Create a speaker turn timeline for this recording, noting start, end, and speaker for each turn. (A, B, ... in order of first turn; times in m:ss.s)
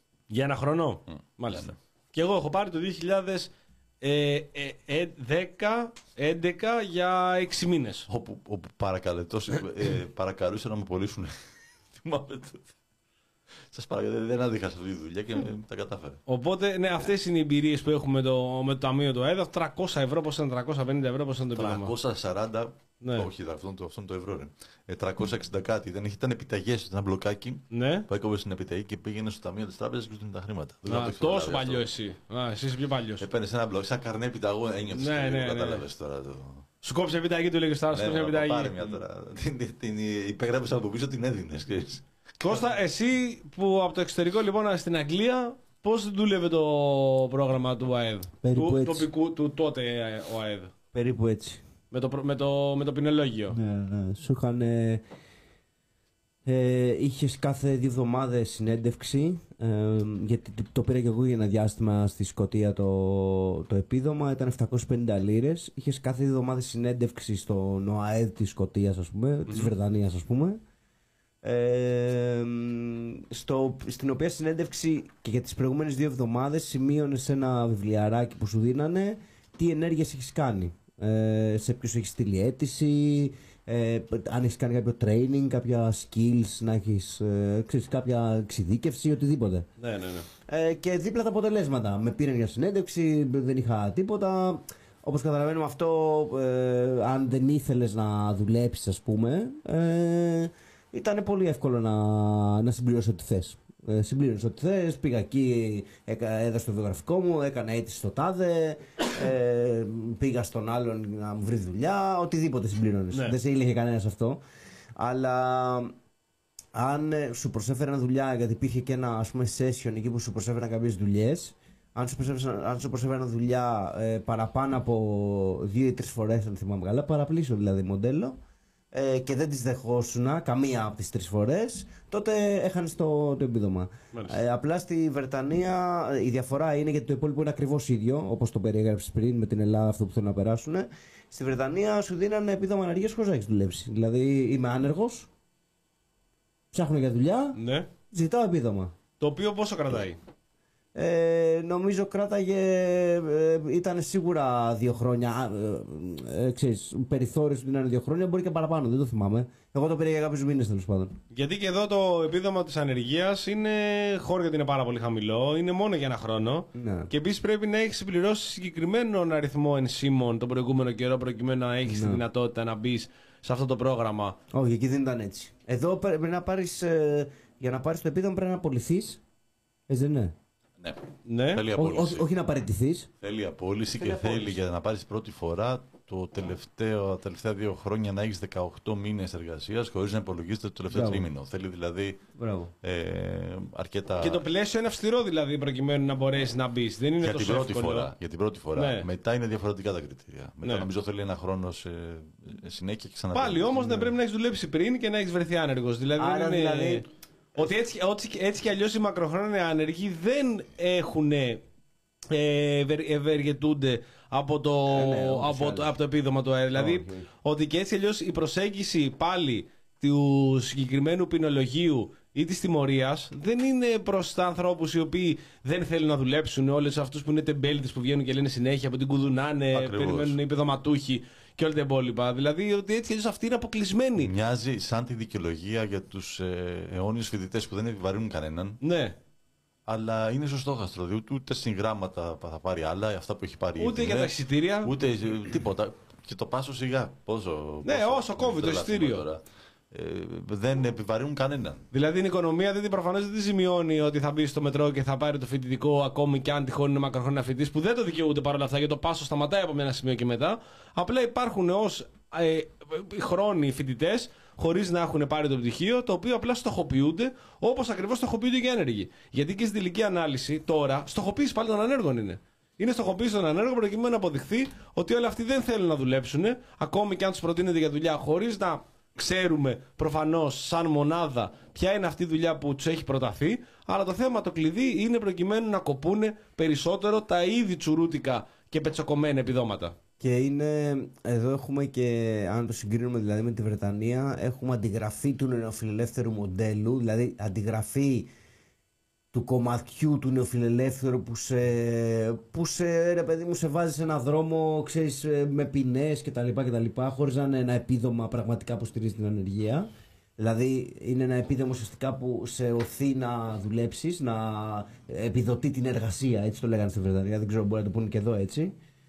0:00.3-0:03.5 A
0:01.1-0:01.8 B
0:04.0-0:08.1 A
0:08.1-0:12.7 B
0:13.7-0:16.2 B
0:16.3-0:21.9 A
0:21.6-0:31.8 B
0:23.0-0:23.3 A
0:27.7-0:28.1 A
0:30.9-0:33.3 A
0:33.2-0:36.6 B
0:34.9-0:35.8 A
0:36.8-0:38.7 A
0:37.9-0:42.0 B
0:42.4-0:50.7 A
0:48.4-0:49.1 C
0:50.9-0:51.6 C
0:51.9-0:53.6 A
0:53.5-0:55.0 C
0:56.4-1:10.6 C
1:11.4-1:29.7 C
1:29.8-1:30.3 A
1:30.5-1:54.4 C
1:55.0-1:56.0 C
1:56.8-2:08.4 C
2:08.9-2:25.3 C
2:14.1-2:14.4 A
2:26.7-2:27.6 C
2:27.6-2:27.9 A
2:28.1-2:28.9 C
2:29.2-2:30.2 A
2:31.0-2:41.2 C
2:41.3-2:54.4 A
2:46.8-2:47.1 C
2:51.9-2:52.2 C
2:54.5-2:59.2 C
2:59.9-3:00.4 C
3:00.8-3:02.3 B
3:01.3-3:01.6 A
3:01.7-3:03.1 C
3:03.2-3:12.3 B
3:04.0-3:04.6 C
3:10.9-3:11.3 C
3:12.4-3:12.7 C
3:12.8-3:14.4 B
3:14.2-3:18.1 A
3:17.2-3:24.0 B
3:18.8-3:19.1 A
3:20.6-3:20.9 A
3:23.3-3:31.6 A
3:26.2-3:27.1 C
3:32.3-3:54.3 A
3:34.9-3:35.9 C
3:36.7-3:37.3 C
3:49.7-3:50.4 B
3:54.2-3:58.8 B
3:58.8-3:59.2 A
3:59.9-4:11.9 B
4:03.8-4:04.9 A
4:07.8-4:09.2 A
4:11.9-4:50.0 A
4:50.2-4:58.3 C
4:59.3-5:18.8 C